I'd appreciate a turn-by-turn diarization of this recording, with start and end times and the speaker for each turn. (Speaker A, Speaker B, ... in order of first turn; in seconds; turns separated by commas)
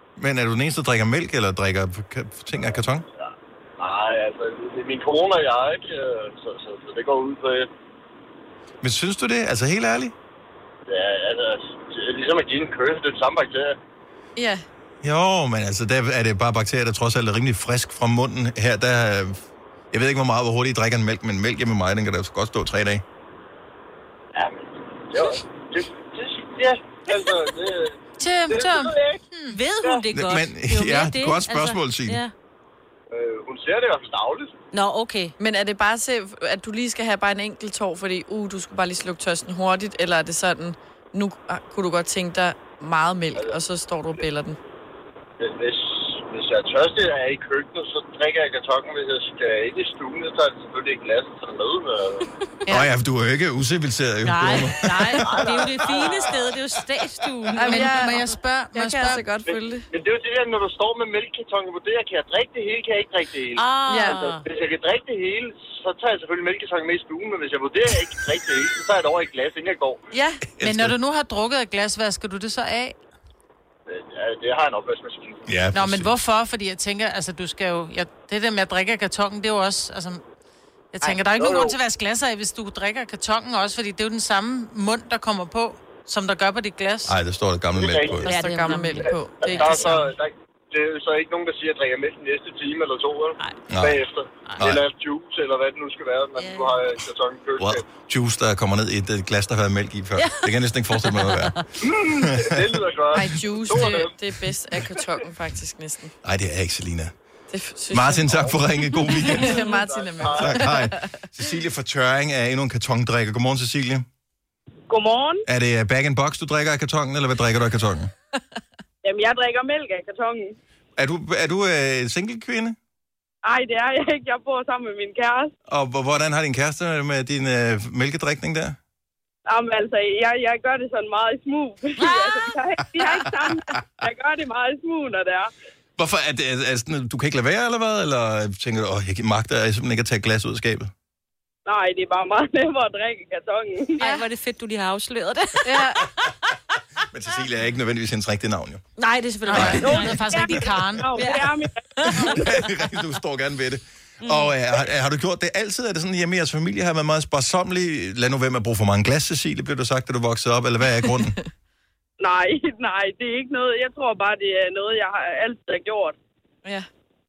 Speaker A: 0.2-3.0, Speaker B: 3.8-7.7, Speaker A: 8.8-10.1, Speaker B: 10.9-13.8, Speaker C: 14.3-14.6, Speaker A: 15.0-23.0, Speaker B: 24.3-28.0, Speaker D: 28.2-29.6, Speaker B: 28.5-29.2, Speaker E: 29.5-32.3, Speaker A: 30.1-32.2, Speaker B: 33.1-34.5, Speaker E: 34.7-35.3, Speaker C: 35.4-44.6, Speaker B: 45.4-52.3, Speaker A: 52.7-55.4, Speaker E: 54.2-58.2, Speaker B: 55.2-56.4, Speaker C: 57.5-59.8, Speaker D: 57.7-59.2, Speaker B: 59.5-70.0, Speaker E: 63.6-64.4, Speaker C: 63.9-64.2, Speaker C: 70.1-70.4, Speaker A: 70.6-71.0, Speaker D: 70.6-73.0, Speaker B: 73.9-75.4, Speaker A: 75.5-76.1, Speaker D: 75.7-80.2, Speaker D: 80.9-87.1, Speaker B: 81.3-81.8, Speaker A: 87.0-88.3, Speaker B: 87.8-88.2, Speaker E: 88.2-90.0, Speaker C: 88.3-90.0, Speaker B: 89.4-97.8, Speaker D: 89.5-89.8, Speaker A: 93.7-94.0, Speaker E: 96.4-96.8, Speaker A: 97.6-102.8, Speaker E: 100.2-101.5, Speaker B: 101.8-104.2, Speaker C: 103.1-106.1, Speaker A: 106.2-107.1, Speaker C: 107.5-108.3, Speaker A: 107.9-109.6, Speaker B: 108.2-108.6, Speaker C: 109.2-111.0, Speaker B: 109.3-110.6, Speaker A: 110.3-114.0, Speaker F: 114.9-115.4, Speaker A: 115.5-118.1, Speaker F: 119.0-120.5, Speaker A: 121.0-122.8, Speaker F: 123.4-125.5, Speaker A: 125.7-128.8, Speaker F: 129.5-135.5, Speaker E: 132.0-133.2, Speaker A: 136.0-140.9, Speaker F: 141.7-144.0, Speaker E: 144.0-146.3, Speaker C: 145.6-146.1, Speaker A: 147.1-148.8, Speaker E: 149.0-150.5, Speaker D: 149.5-151.3, Speaker A: 149.5-150.0, Speaker F: 149.6-152.3, Speaker E: 151.1-152.5, Speaker A: 152.2-161.3, Speaker E: 154.2-154.5, Speaker F: 162.2-166.1